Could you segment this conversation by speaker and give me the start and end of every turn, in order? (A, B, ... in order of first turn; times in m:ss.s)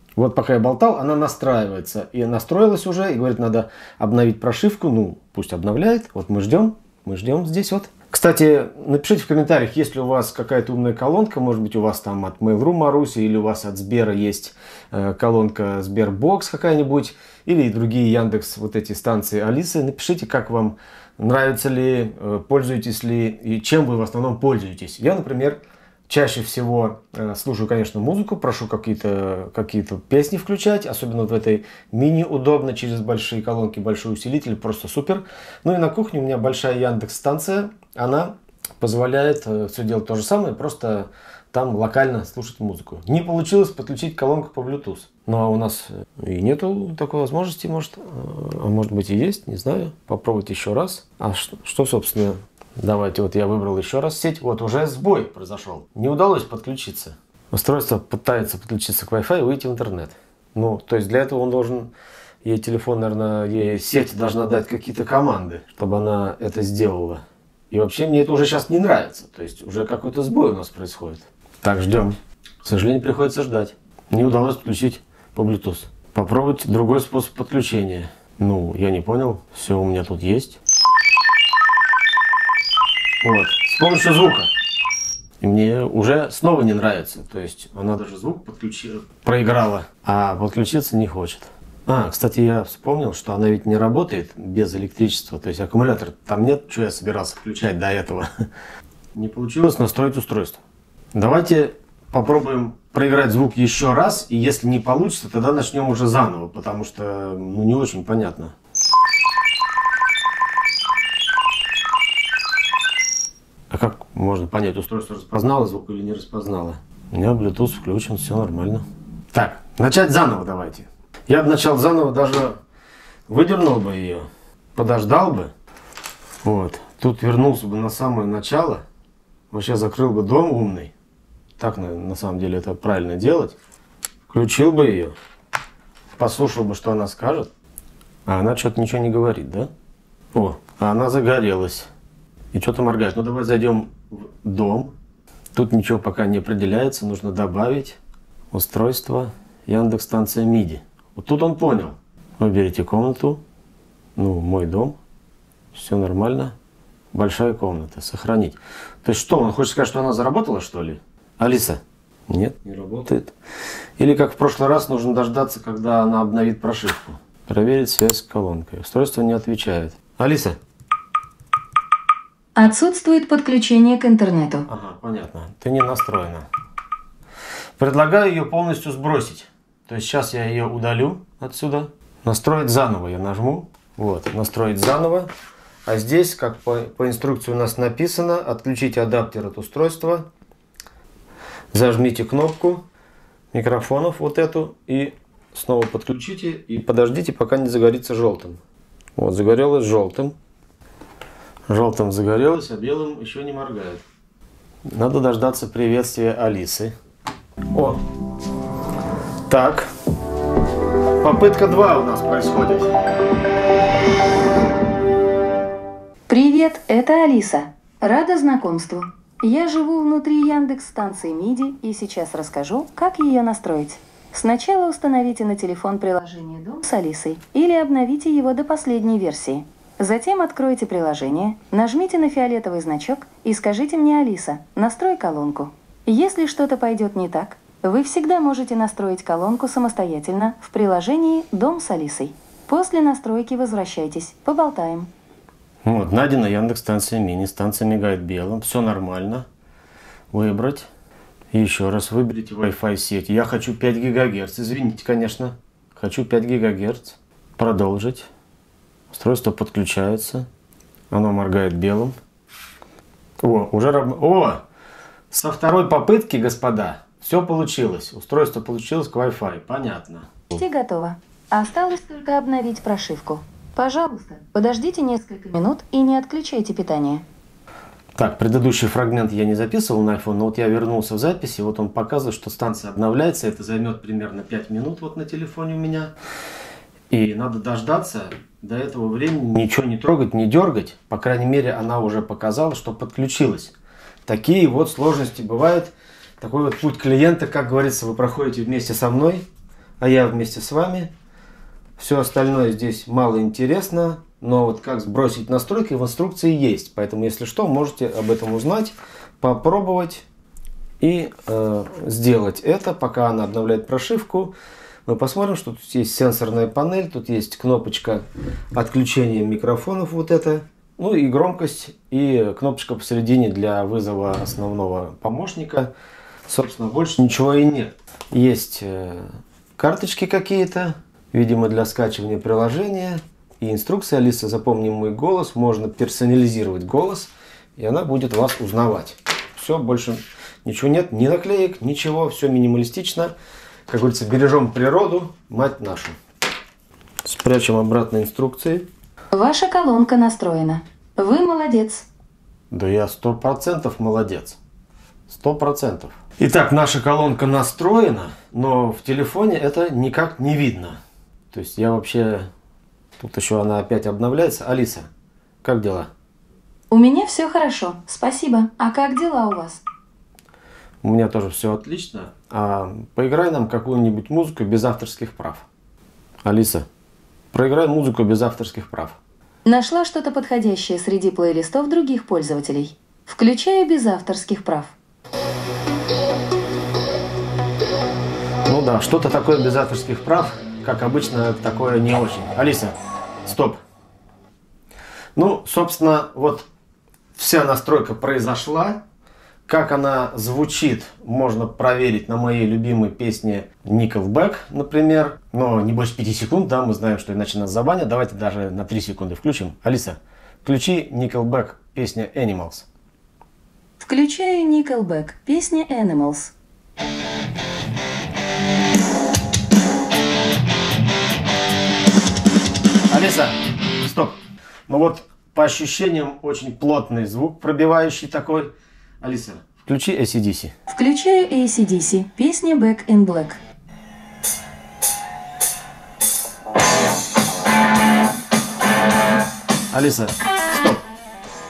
0:00.2-1:01.9 A
1:02.4-1:20.6 A
1:23.2-1:24.5 A
1:25.4-1:38.3 A
1:39.1-1:40.6 A
1:41.1-1:48.5 A
1:53.7-2:02.6 A
2:03.3-2:05.5 A
2:06.4-2:08.8 A
2:09.5-2:10.9 A
2:11.6-2:13.6 A
2:14.3-2:15.1 A
2:16.2-2:17.5 A
2:18.3-2:19.7 A
2:20.3-2:21.9 A
2:22.5-2:24.9 A
2:25.6-2:28.0 A
2:28.5-2:33.4 A
2:34.2-2:35.0 A
2:35.7-2:36.6 A
2:37.1-2:43.3 A
2:44.0-2:50.6 A
2:52.6-2:54.7 B
2:54.7-2:56.4 A
2:57.8-3:05.3 A
3:05.8-3:10.3 A
3:11.7-3:12.8 A
3:13.5-3:18.6 A
3:19.2-3:20.3 A
3:21.7-3:24.0 A
3:24.8-3:26.9 A
3:27.7-3:28.0 A
3:29.5-3:29.9 A
3:31.2-3:32.9 A
3:36.3-4:05.1 B
4:05.8-4:09.4 A
4:10.3-4:10.9 A
4:11.5-4:18.3 A
4:19.1-4:20.5 A
4:21.1-4:22.2 A
4:23.4-4:24.6 A
4:25.3-4:30.4 A
4:30.5-4:37.2 B
4:38.2-4:46.1 A
4:47.1-4:53.7 A
4:54.3-4:59.4 A
5:00.0-5:01.1 A
5:02.0-5:10.2 A
5:11.0-5:14.5 A
5:15.1-5:25.9 A
5:26.5-5:43.3 A
5:43.9-5:46.2 A
5:47.2-5:48.9 A
5:49.3-5:52.1 B
5:52.7-5:54.6 A
5:55.3-6:01.0 A
6:01.5-6:02.5 A
6:03.2-6:05.1 A
6:05.6-6:06.1 A
6:06.9-6:09.8 B
6:11.0-6:15.7 A
6:16.4-6:16.8 A
6:17.5-6:19.2 A
6:19.6-6:24.9 B
6:28.7-6:33.8 A
6:35.4-6:36.7 A
6:37.4-6:39.0 A
6:39.7-6:52.8 A
6:54.0-6:56.5 B
7:03.1-7:10.7 A
7:10.9-7:13.6 B
7:19.9-7:21.0 A